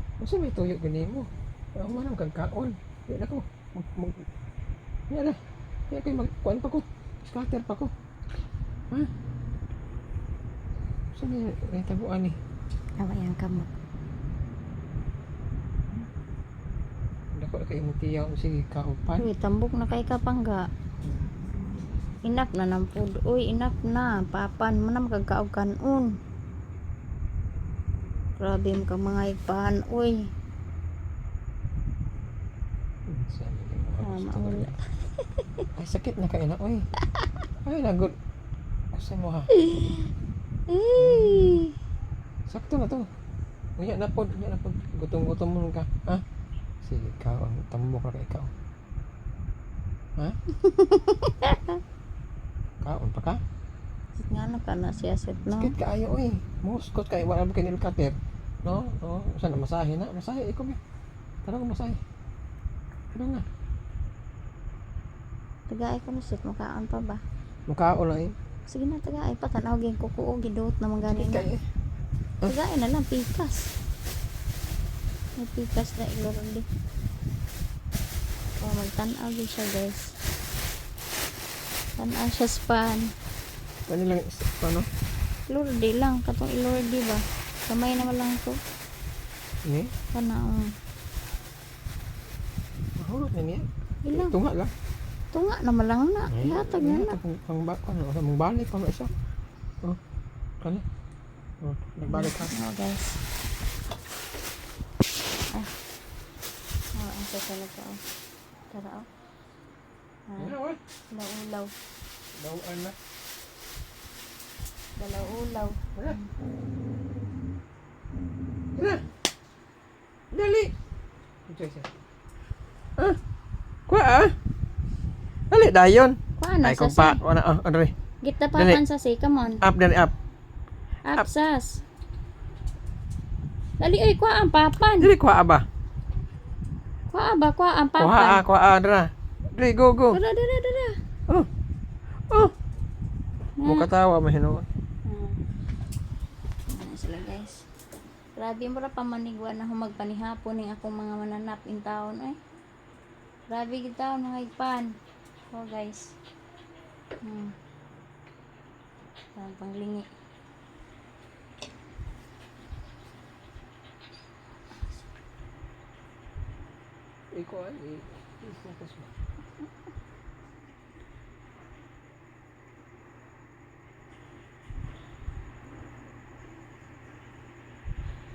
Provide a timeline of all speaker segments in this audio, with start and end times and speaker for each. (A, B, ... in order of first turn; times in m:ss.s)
0:00.2-0:04.3 A
0:05.1-0:05.4 A
0:05.9-0:07.9 A
0:11.1-0:12.4 A
0:13.0-0:13.7 B
0:17.4-0:19.3 A
0:19.2-0:20.7 B
0:22.3-0:26.2 B
0:28.4-0:30.3 B
0:33.1-0:34.7 A
0:34.0-0:35.6 B
0:35.8-0:36.9 A
0:37.6-0:38.1 A
0:38.9-0:39.5 A
0:39.5-0:40.1 B
0:40.7-0:41.8 B
0:41.0-0:41.6 A
0:42.5-0:43.1 A
0:43.8-0:46.2 A
0:46.8-0:48.5 A
0:50.6-0:51.8 B
0:52.8-0:53.4 A
0:54.2-0:55.8 B
0:55.5-1:00.8 A
1:01.4-1:02.0 A
1:03.1-1:03.5 A
1:05.7-1:07.2 B
1:07.7-1:08.4 A
1:08.7-1:11.5 B
1:11.0-1:11.6 A
1:12.4-1:13.7 B
1:15.4-1:16.7 B
1:18.6-1:20.1 B
1:22.0-1:23.1 B
1:23.9-1:24.9 A
1:25.5-1:28.6 B
1:29.7-1:29.9 A
1:30.1-1:30.7 B
1:33.0-1:34.7 A
1:34.1-1:34.4 B
1:35.3-1:37.2 B
1:36.3-1:39.1 A
1:41.6-1:42.6 A
1:42.1-1:43.2 B
1:47.0-1:48.0 B
1:48.7-1:49.1 B
1:50.3-1:50.6 B
1:50.4-1:50.8 A
1:51.1-1:51.7 B
1:52.4-1:53.0 A
1:55.0-1:56.3 B
1:58.8-1:59.0 A
2:00.3-2:00.7 A
2:01.5-2:01.9 A
2:03.9-2:04.4 A
2:05.5-2:07.9 A
2:06.4-2:07.2 B
2:08.2-2:09.6 B
2:08.6-2:08.8 A
2:09.6-2:10.2 A
2:11.0-2:11.8 B
2:13.8-2:15.1 B
2:15.0-2:15.6 A
2:17.1-2:18.4 B
2:18.0-2:20.2 A
2:20.1-2:21.0 B
2:23.6-2:23.9 B
2:23.6-2:24.7 A
2:25.0-2:25.4 B
2:26.7-2:27.6 B
2:28.4-2:32.4 B
2:33.5-2:34.9 B
2:35.5-2:36.2 B
2:37.2-2:37.6 B
2:39.4-2:40.1 B
2:47.3-2:49.1 A